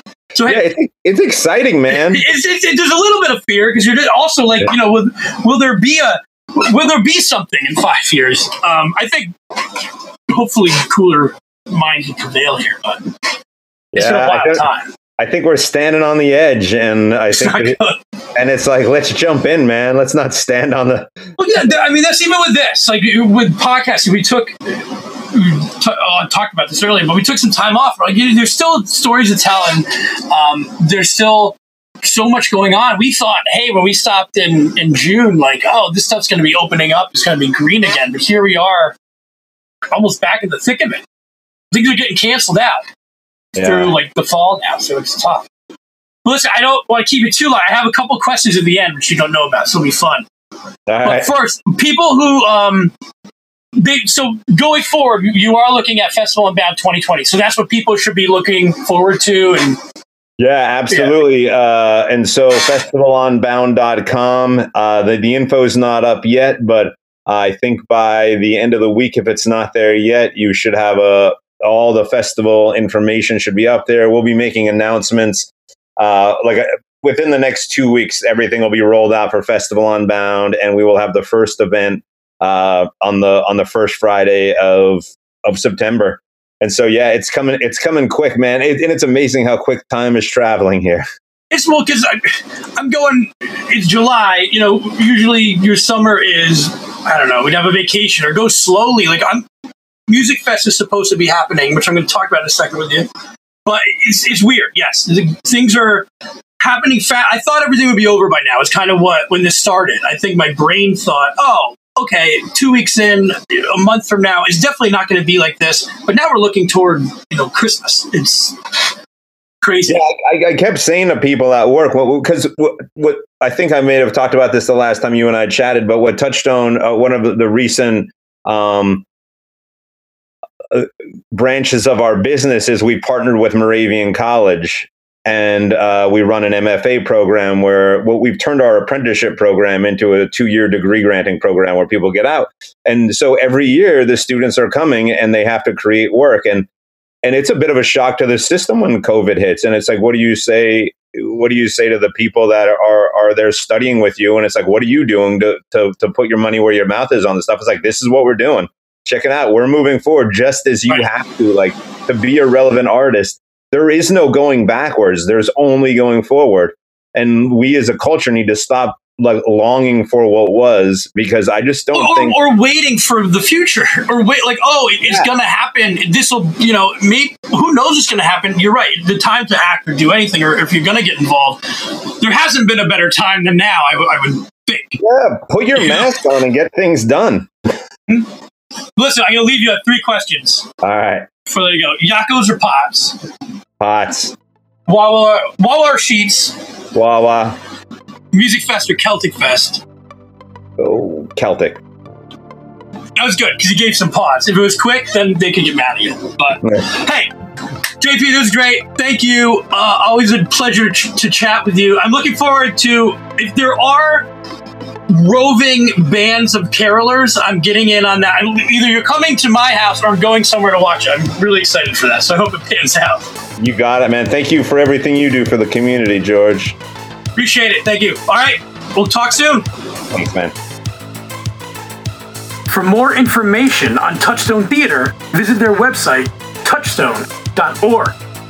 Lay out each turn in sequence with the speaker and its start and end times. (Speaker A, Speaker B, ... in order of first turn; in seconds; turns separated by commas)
Speaker A: 0.3-0.6, Speaker B: 0.4-2.2, Speaker A: 1.9-13.3, Speaker B: 13.9-14.6, Speaker A: 13.9-14.9, Speaker B: 15.2-17.8, Speaker A: 17.3-18.0, Speaker B: 18.4-21.1, Speaker A: 21.4-39.0, Speaker A: 39.9-41.0, Speaker A: 41.7-42.8, Speaker B: 43.5-44.0, Speaker A: 43.6-45.5, Speaker A: 46.2-50.3, Speaker B: 50.9-51.3, Speaker A: 51.0-52.9, Speaker A: 53.8-59.8, Speaker B: 60.4-91.0, Speaker A: 91.5-99.5, Speaker A: 100.1-103.1, Speaker A: 103.6-118.9, Speaker A: 119.6-120.0, Speaker B: 119.9-129.1, Speaker B: 130.7-146.7, Speaker B: 147.2-172.4, Speaker A: 171.9-185.0, Speaker B: 185.0-187.5, Speaker A: 185.8-186.1, Speaker A: 188.9-190.7, Speaker B: 190.8-191.3, Speaker A: 191.5-193.2, Speaker B: 193.8-194.3, Speaker A: 194.9-196.6, Speaker B: 196.9-197.6, Speaker A: 198.3-199.8, Speaker B: 200.8-201.8, Speaker A: 203.2-207.3, Speaker A: 208.0-214.3, Speaker A: 215.1-223.3, Speaker B: 223.6-226.8, Speaker A: 227.4-229.7, Speaker B: 230.1-230.5, Speaker A: 232.7-238.2